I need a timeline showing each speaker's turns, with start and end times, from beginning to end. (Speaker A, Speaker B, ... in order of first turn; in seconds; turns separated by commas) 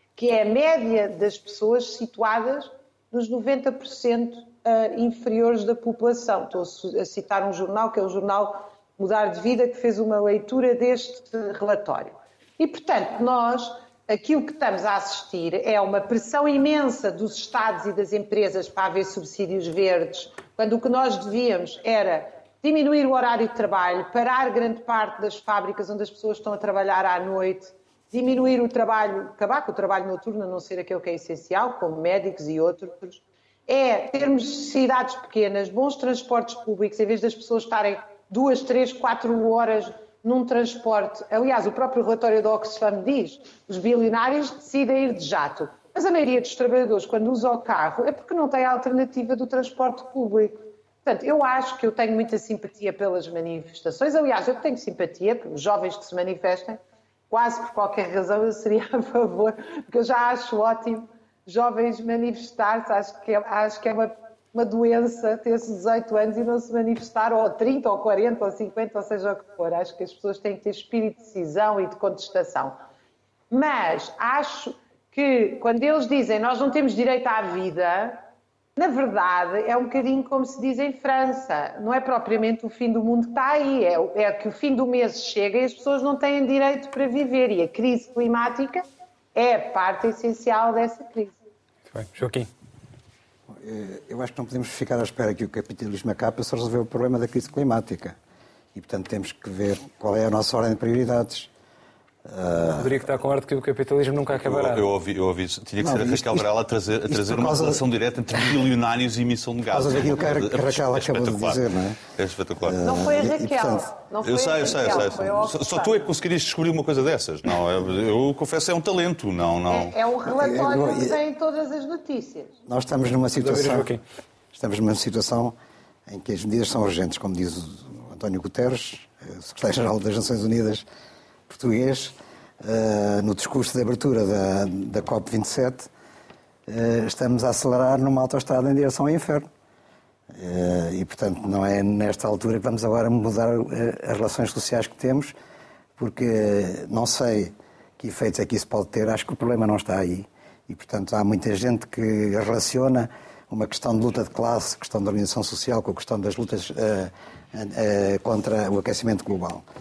Speaker A: 0.2-72.8, Speaker A: 73.5-78.2, Speaker A: 78.8-91.3, Speaker B: 91.9-92.5, Speaker C: 93.5-98.2, Speaker C: 98.8-101.5, Speaker C: 102.3-103.0, Speaker B: 102.8-104.9, Speaker D: 104.4-112.8, Speaker C: 105.8-106.5, Speaker C: 107.1-107.8, Speaker C: 109.7-112.0, Speaker C: 112.6-113.9, Speaker A: 112.8-116.0, Speaker D: 114.2-120.0, Speaker A: 119.7-122.5, Speaker C: 120.2-121.2, Speaker C: 122.7-123.9, Speaker B: 123.4-124.0, Speaker C: 124.5-125.5, Speaker C: 126.1-130.8, Speaker C: 131.5-135.9, Speaker C: 136.7-139.5, Speaker C: 140.3-145.3, Speaker C: 146.0-159.7